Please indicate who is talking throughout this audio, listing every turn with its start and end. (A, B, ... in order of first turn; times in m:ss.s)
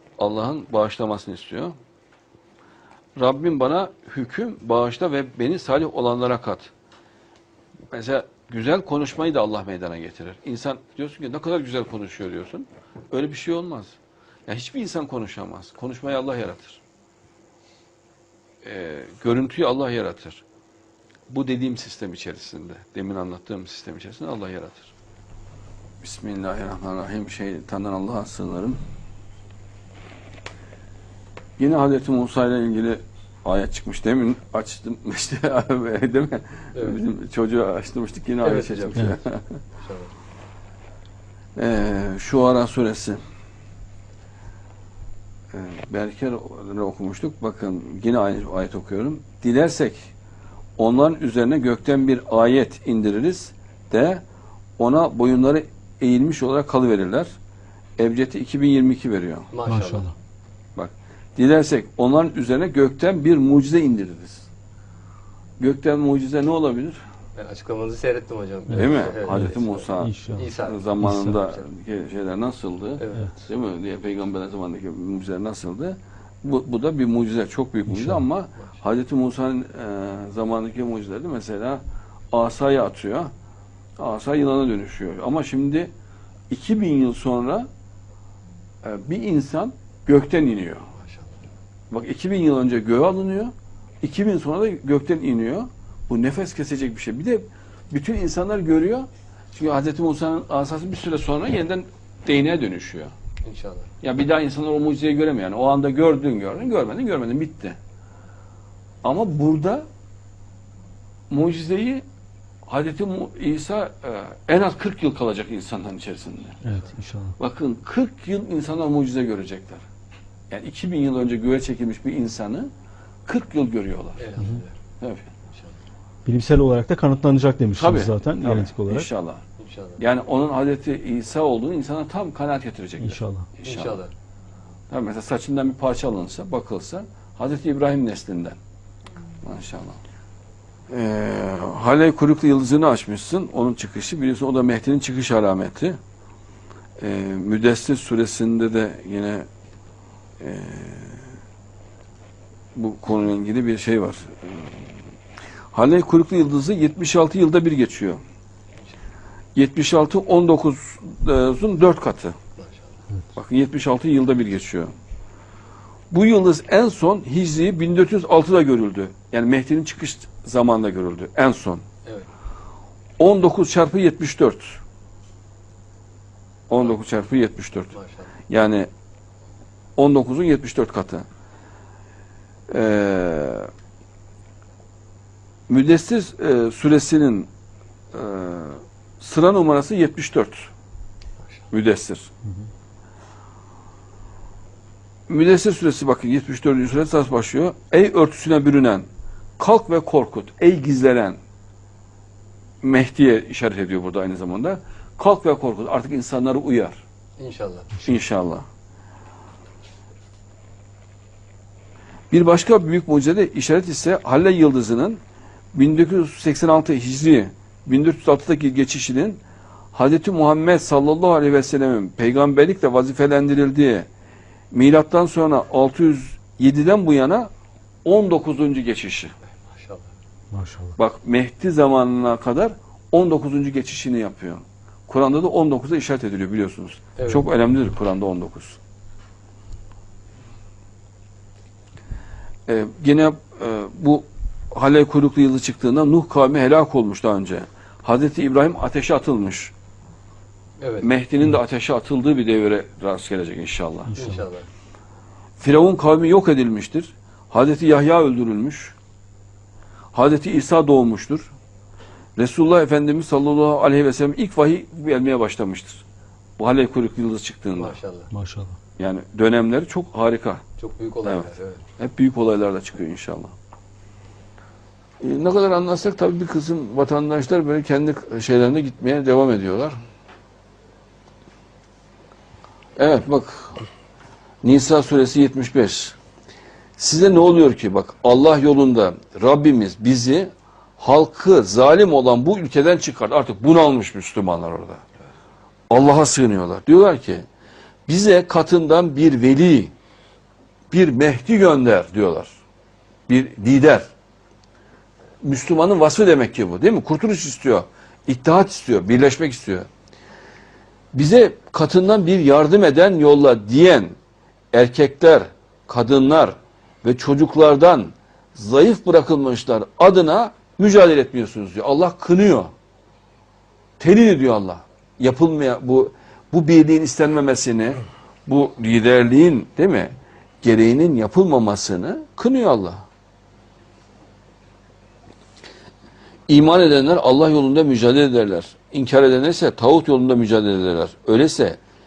0:00.2-0:01.7 A
0:03.2-0:06.7 A
0:07.9-0:16.8 A
0:18.6-0:20.4 A
0:21.3-0:24.9 A
0:26.0-0:28.8 A
0:31.6-0:39.6 A
0:36.7-0:37.0 B
0:38.4-0:39.2 B
0:39.7-0:40.1 B
0:41.6-0:43.2 A
0:45.5-0:50.1 A
0:50.8-0:54.2 A
0:54.8-0:57.3 A
0:58.0-0:59.5 A
0:59.5-1:00.1 B
0:59.7-1:00.1 C
1:00.8-1:04.5 A
1:05.6-1:07.0 A
1:07.4-1:11.6 B
1:08.7-1:10.5 C
1:08.7-1:23.3 A
1:11.0-1:11.4 C
1:13.0-1:13.4 B
1:17.9-1:18.2 C
1:24.0-1:25.9 A
1:26.5-1:27.7 A
1:28.8-1:30.9 A
1:31.0-1:31.3 B
1:31.9-1:43.1 A
1:43.4-1:43.9 B
1:44.0-1:47.8 A
1:49.0-1:49.9 A
1:51.3-1:52.0 A
1:52.7-1:56.6 A
1:56.6-1:57.3 C
1:57.4-1:59.8 A
2:00.5-2:02.7 A
2:03.2-2:04.3 A
2:04.2-2:04.7 B
2:05.0-2:05.3 A
2:05.5-2:05.8 B
2:06.2-2:09.1 C
2:07.8-2:09.4 A
2:09.6-2:10.0 B
2:10.0-2:13.9 A
2:13.0-2:13.5 C
2:13.6-2:14.1 B
2:14.9-2:18.6 A
2:19.4-2:20.0 A
2:20.9-2:26.0 A
2:27.0-2:29.4 A
2:30.4-2:31.2 A
2:32.7-2:34.8 A
2:35.7-2:38.2 A
2:39.5-2:42.4 A
2:42.6-2:43.0 B
2:43.3-2:44.9 A
2:46.1-2:51.8 A
2:52.0-2:52.3 B
2:53.2-2:54.8 A
2:56.7-2:57.9 A
2:57.9-2:58.3 B
2:58.5-2:58.9 A
3:00.0-3:01.2 A
3:02.7-3:03.7 A
3:05.7-3:07.5 A
3:08.1-3:10.7 A
3:11.7-3:12.3 A
3:15.3-3:19.1 A
3:19.6-3:21.4 A
3:22.8-3:27.0 A
3:27.4-3:27.9 B
3:28.0-3:28.6 A
3:32.3-3:35.2 A
3:35.7-3:39.4 A
3:39.9-3:44.1 A
3:44.7-3:47.5 A
3:48.0-3:49.3 A
3:49.6-3:50.1 B
3:50.5-3:50.9 C
3:51.0-3:58.8 A
3:57.2-3:57.5 B
4:02.7-4:09.7 A
4:10.8-4:11.1 B
4:11.0-4:14.2 A
4:14.1-4:14.6 B
4:15.6-4:18.9 A
4:20.1-4:21.5 A
4:22.4-4:26.0 A
4:26.6-4:28.0 A
4:27.8-4:28.3 B
4:28.3-4:28.8 C
4:29.0-4:30.6 A
4:30.8-4:31.8 B
4:31.2-4:33.5 A
4:35.2-4:40.0 A
4:43.0-4:43.8 A
4:44.6-4:46.2 A
4:47.0-4:55.0 A
4:55.9-4:57.4 A
4:58.1-4:59.9 A
5:00.9-5:02.6 A
5:03.3-5:04.0 A
5:05.4-5:09.9 A
5:11.1-5:14.2 A
5:14.7-5:22.7 A
5:24.0-5:33.0 A
5:36.5-5:41.8 A